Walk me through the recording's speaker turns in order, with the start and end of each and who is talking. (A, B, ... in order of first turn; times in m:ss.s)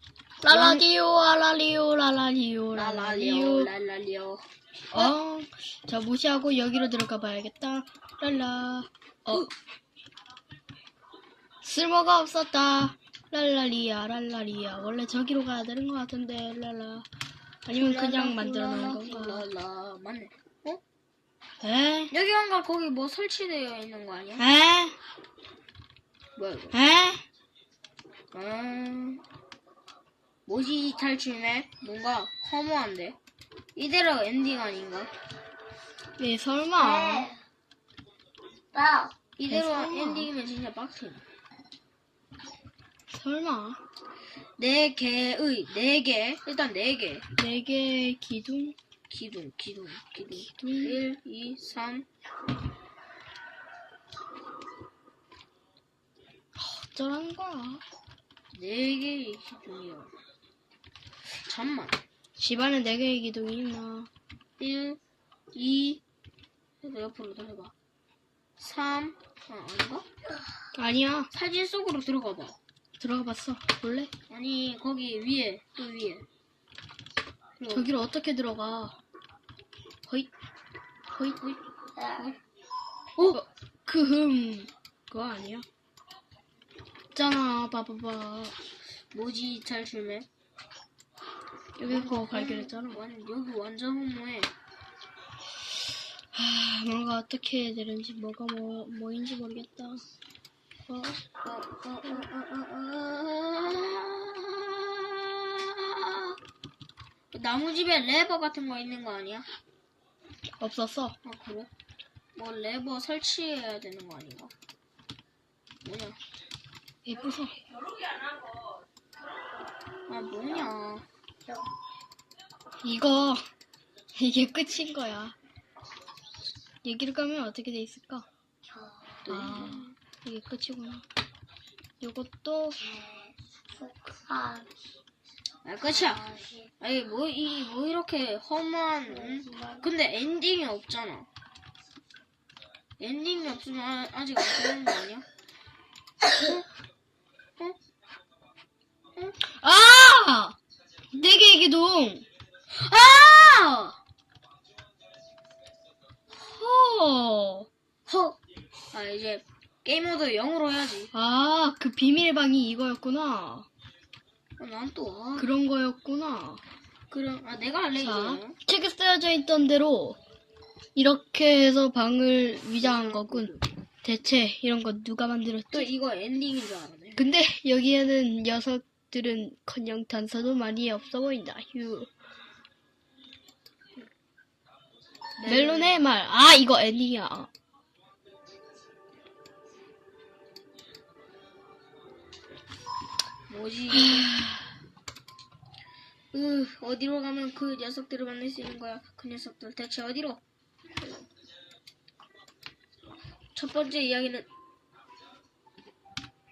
0:00.4-0:03.7 A
0:00.5-0:00.8 B
0:02.7-0:05.1 B
0:04.9-0:09.5 A
0:11.6-0:17.1 A
0:17.7-0:19.4 A
0:17.7-0:20.8 B
0:21.6-0:22.1 A
0:22.1-0:24.4 B
0:24.4-0:25.0 A
0:26.4-0:26.8 B
0:26.7-0:27.2 A
0:28.3-0:29.2 B
0:30.5-0:33.2 B
0:33.7-0:35.1 B
0:36.2-0:37.3 A
0:36.8-0:37.4 C
0:38.7-0:39.1 C
0:39.4-0:41.2 B
0:39.5-0:40.3 A
0:43.1-0:43.8 A
0:44.6-0:47.3 B
0:47.4-0:48.7 A
0:49.1-0:52.1 B
0:50.4-0:51.0 A
0:56.6-0:57.8 A
0:58.5-1:00.1 B
1:01.4-1:02.0 B
1:02.4-1:04.1 A
1:04.6-1:05.0 B
1:05.5-1:06.0 B
1:06.8-1:07.7 B
1:08.6-1:10.0 B
1:10.7-1:11.3 A
1:11.3-1:12.6 B
1:13.0-1:14.1 A
1:14.3-1:16.3 B
1:17.6-1:18.0 B
1:17.7-1:19.0 A
1:21.1-1:21.4 A
1:21.4-1:22.4 B
1:23.2-1:25.6 A
1:27.1-1:28.6 A
1:29.1-1:30.3 B
1:31.8-1:33.0 A
1:31.8-1:34.5 B
1:36.3-1:40.0 A
1:40.9-1:41.2 A
1:41.4-1:46.4 B
1:47.3-1:49.5 B
1:50.6-1:51.2 A
1:51.2-1:51.7 B
1:52.3-1:54.5 B
1:55.8-1:56.2 B
1:57.0-1:57.6 A
2:00.1-2:01.0 B
2:02.8-2:03.5 A
2:04.2-2:05.4 A
2:06.8-2:08.3 A
2:08.8-2:09.2 C
2:09.2-2:10.0 B
2:09.3-2:11.0 A
2:12.0-2:12.8 A
2:12.9-2:14.7 C
2:15.6-2:21.3 B
2:16.0-2:16.7 C
2:19.3-2:19.8 C
2:23.0-2:25.2 B
2:26.3-2:26.6 B
2:29.5-2:30.6 A
2:31.1-2:32.2 A
2:32.7-2:34.0 B
2:36.4-2:37.7 A
2:38.1-2:38.4 B
2:38.9-2:41.1 B
2:41.1-2:43.7 A
2:44.6-2:45.5 B
2:45.4-2:46.6 A
2:47.1-2:48.6 B
2:48.0-2:50.2 A
2:51.0-2:55.9 A
2:52.8-2:53.7 B
2:55.7-2:57.3 B
2:57.2-3:02.1 A
3:05.4-3:06.1 B
3:05.4-3:07.5 A
3:13.5-3:14.3 B
3:13.9-3:14.6 A
3:16.3-3:20.4 B
3:23.6-3:24.5 B